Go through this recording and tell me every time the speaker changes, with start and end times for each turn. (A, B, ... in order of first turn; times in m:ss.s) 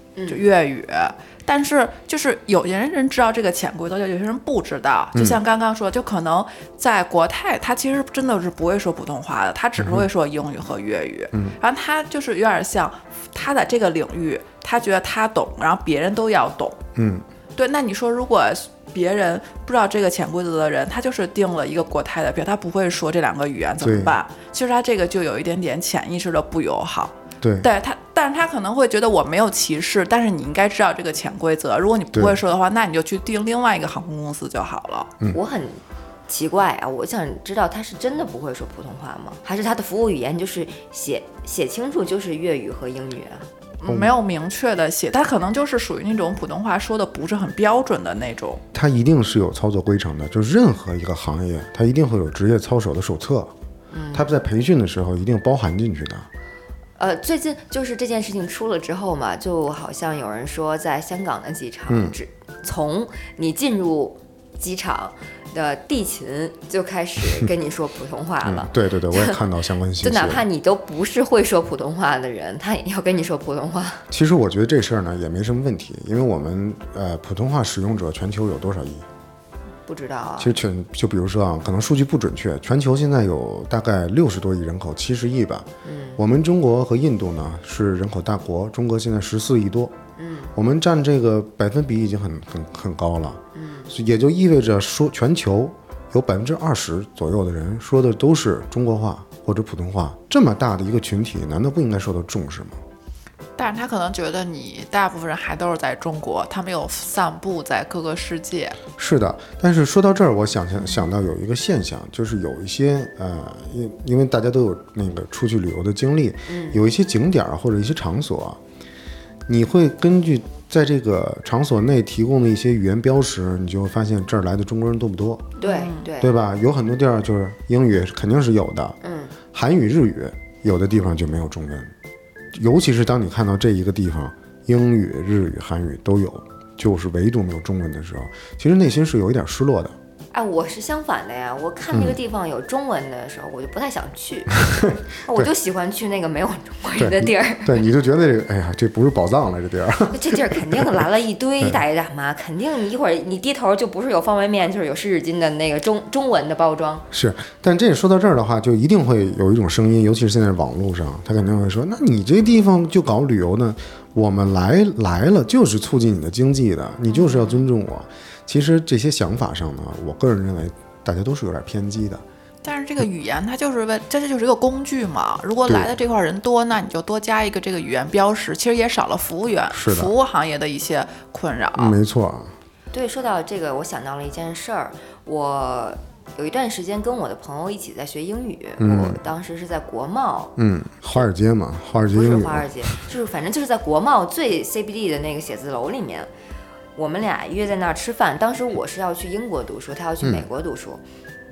0:00.2-0:00.4 A
0:00.3-0:16.8 B
0:05.1-0:05.4 C
0:09.8-0:10.1 C
0:17.0-0:17.2 C
0:17.5-0:35.1 B
0:23.8-0:24.2 C
0:27.4-0:27.7 C
0:32.1-0:32.4 C
0:35.3-0:43.5 A
0:43.8-0:48.6 B
0:43.8-0:44.1 C
0:48.7-0:53.5 C
0:53.9-0:54.3 A
0:54.1-0:56.3 C
0:57.0-1:09.4 A
1:01.9-1:02.2 C
1:08.4-1:10.4 C
1:10.0-1:14.0 A
1:14.1-1:19.0 C
1:19.9-1:20.6 A
1:20.4-1:29.9 C
1:25.8-1:26.2 A
1:30.2-1:30.5 A
1:30.5-1:42.8 C
1:33.5-1:33.9 A
1:43.6-1:48.8 B
1:49.0-1:58.6 C
1:56.5-1:56.8 A
1:59.5-2:05.5 C
2:05.6-2:06.0 B
2:05.6-2:06.3 A
2:06.2-2:09.0 C
2:09.0-2:09.3 A
2:09.5-2:11.9 C
2:12.5-2:19.9 C
2:20.3-2:27.8 A
2:21.9-2:22.2 C
2:24.7-2:25.5 C
2:27.0-2:31.0 C
2:30.1-2:37.0 A
2:37.1-2:52.2 C
2:52.6-3:02.0 B
2:59.7-3:00.1 C
3:01.7-3:02.5 C
3:02.9-3:10.5 A
3:08.8-3:09.2 C
3:10.6-3:12.9 C
3:12.1-3:16.3 A
3:17.0-3:21.0 A
3:20.2-3:20.5 C